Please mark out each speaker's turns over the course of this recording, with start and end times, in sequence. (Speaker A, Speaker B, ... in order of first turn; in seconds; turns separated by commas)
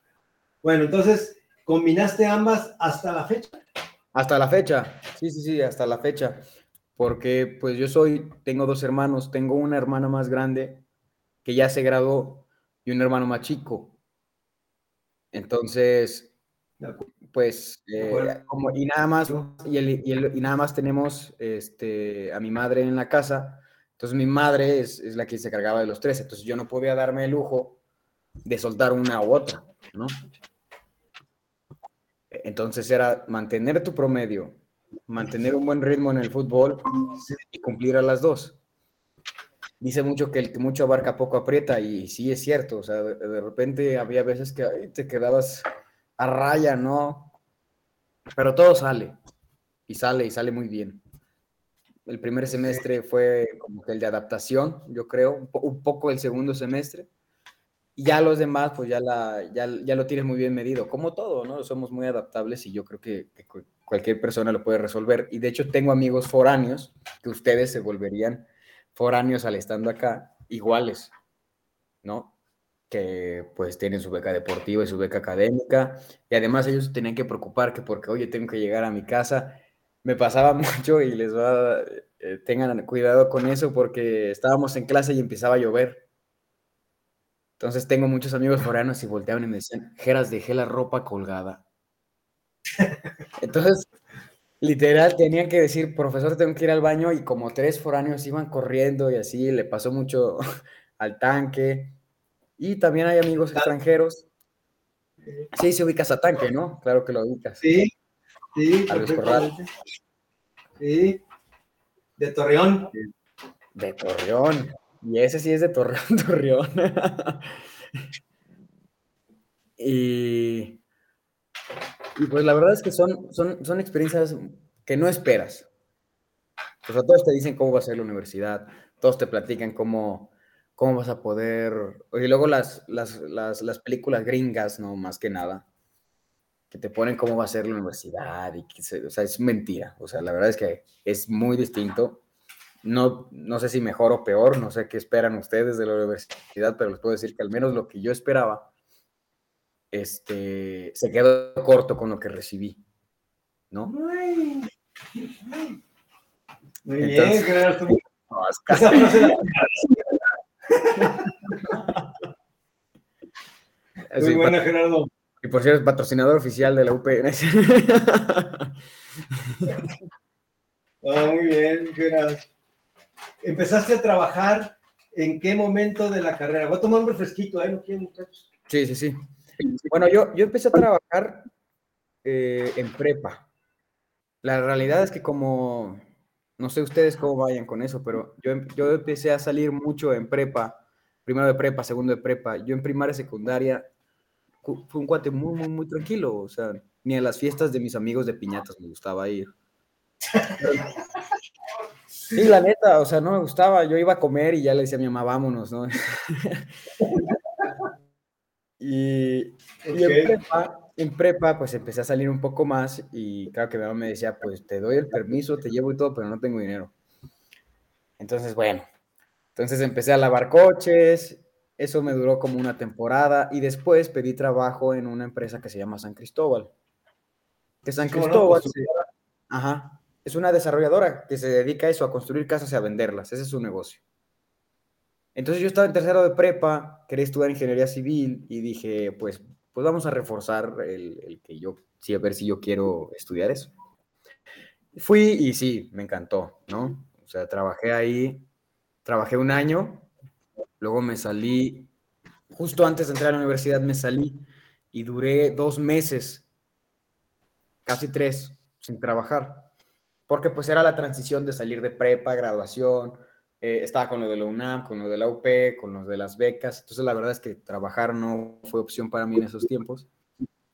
Speaker A: 0.6-3.6, Speaker B: 4.1-10.8, Speaker B: 11.4-13.9, Speaker B: 15.3-16.3, Speaker B: 17.3-27.8, Speaker A: 18.0-18.4, Speaker B: 28.4-30.1, Speaker B: 32.3-38.6, Speaker B: 39.8-45.6, Speaker B: 46.2-47.3, Speaker B: 48.3-49.2, Speaker B: 49.9-51.0, Speaker B: 52.0-57.1, Speaker B: 58.0-71.1, Speaker B: 72.0-72.3, Speaker B: 72.9-86.0, Speaker B: 87.6-91.6, Speaker B: 93.4-93.9, Speaker B: 94.6-100.4, Speaker B: 101.0-101.9, Speaker B: 102.6-104.2, Speaker B: 105.5-107.6, Speaker A: 107.6-107.9, Speaker A: 108.5-109.7, Speaker B: 108.9-109.5, Speaker A: 110.8-111.2, Speaker A: 112.2-112.9, Speaker B: 113.7-117.6, Speaker B: 119.8-120.8, Speaker B: 122.2-125.7, Speaker B: 126.8-135.6, Speaker B: 136.7-142.2, Speaker B: 142.8-148.7, Speaker B: 149.9-152.8, Speaker A: 153.9-154.7, Speaker A: 156.8-158.0, Speaker B: 157.0-157.6, Speaker B: 158.3-159.1, Speaker A: 158.7-159.5, Speaker A: 160.7-161.6, Speaker B: 164.1-164.6, Speaker A: 164.2-165.1, Speaker B: 165.4-168.7, Speaker B: 169.4-169.8, Speaker A: 171.0-172.4, Speaker A: 173.4-178.4, Speaker B: 178.7-179.3, Speaker B: 179.9-181.5, Speaker B: 182.2-183.4, Speaker B: 184.4-186.0, Speaker B: 186.6-193.9, Speaker B: 194.6-199.5, Speaker B: 202.3-206.7, Speaker B: 208.8-216.9, Speaker A: 209.8-210.3, Speaker B: 218.2-218.8, Speaker B: 219.6-226.7, Speaker B: 227.8-228.9, Speaker A: 228.0-229.0, Speaker B: 229.5-234.0, Speaker B: 235.3-243.7, Speaker B: 244.9-248.5, Speaker B: 249.0-250.1, Speaker B: 250.8-251.9, Speaker B: 252.5-256.4, Speaker B: 257.9-259.7, Speaker B: 260.3-270.1